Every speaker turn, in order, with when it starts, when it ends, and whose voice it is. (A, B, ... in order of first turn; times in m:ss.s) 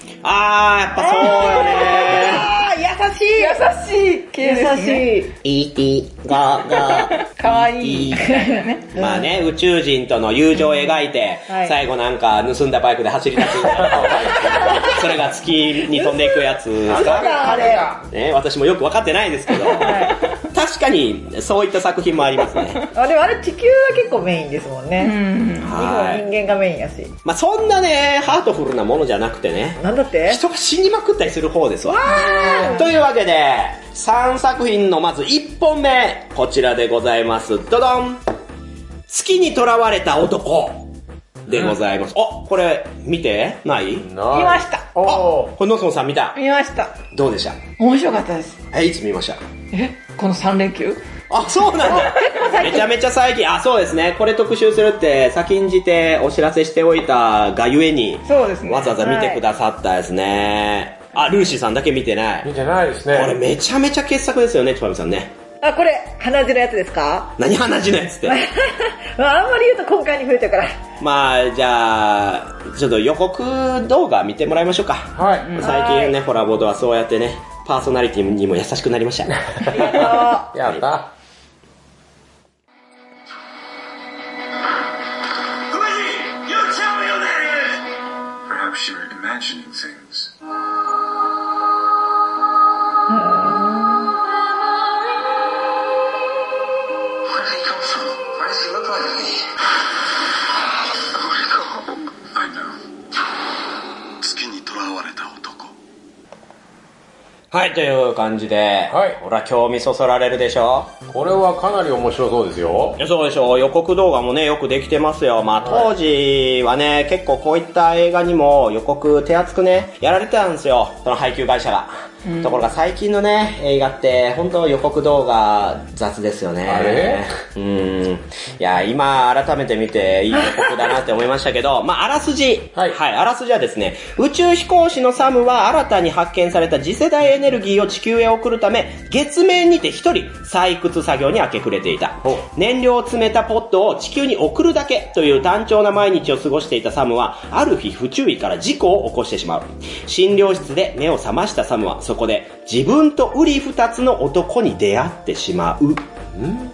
0:00.2-0:02.5 A
0:01.0-0:03.6 B
0:01.7-0:02.4 C
0:03.4-0:05.1 C
0:04.4-0:05.3 B
0:05.4-0:08.3 A
0:06.7-0:09.0 C
0:08.3-0:09.3 B
0:08.9-0:22.8 A
0:11.5-0:11.8 B
0:13.9-0:14.6 D
0:14.6-0:15.0 B
0:15.9-0:18.0 B
0:19.7-0:20.2 B
0:22.9-0:25.2 B
0:25.0-0:25.8 C
0:25.6-0:26.3 A
0:25.7-0:27.1 B
0:27.2-0:38.2 A
0:29.8-0:30.4 B
0:31.8-0:32.9 B
0:32.1-0:32.8 C
0:39.1-0:40.9 A
0:41.5-0:44.1 A
0:44.0-0:45.5 D
0:44.3-0:44.9 C
0:45.0-0:46.4 A
0:46.4-0:47.0 C
0:47.1-0:47.6 A
0:47.8-0:48.6 C
0:48.7-0:49.4 A
0:49.7-0:51.0 C
0:51.3-1:02.5 A
0:51.9-0:52.8 B
0:51.9-0:52.7 C
0:58.3-0:59.0 C
0:59.0-0:59.4 B
1:02.4-1:03.4 D
1:03.1-1:05.3 A
1:05.6-1:07.4 B
1:07.4-1:08.4 A
1:08.3-1:10.7 B
1:11.0-1:19.9 A
1:15.2-1:15.6 D
1:15.3-1:15.8 C
1:15.6-1:16.2 B
1:19.5-1:21.1 D
1:19.7-1:20.5 B
1:20.6-1:20.9 A
1:25.8-1:27.7 E
1:28.5-1:30.3 E
1:33.1-1:34.1 B
1:37.3-1:39.5 E
1:42.3-1:42.8 E
1:44.2-1:45.7 E
1:47.5-1:51.0 A
1:48.9-1:49.2 D
1:51.1-1:53.0 D
1:53.0-2:36.0 A
1:55.6-1:55.9 D
2:02.3-2:02.6 C
2:06.7-2:07.2 D
2:36.4-2:36.6 D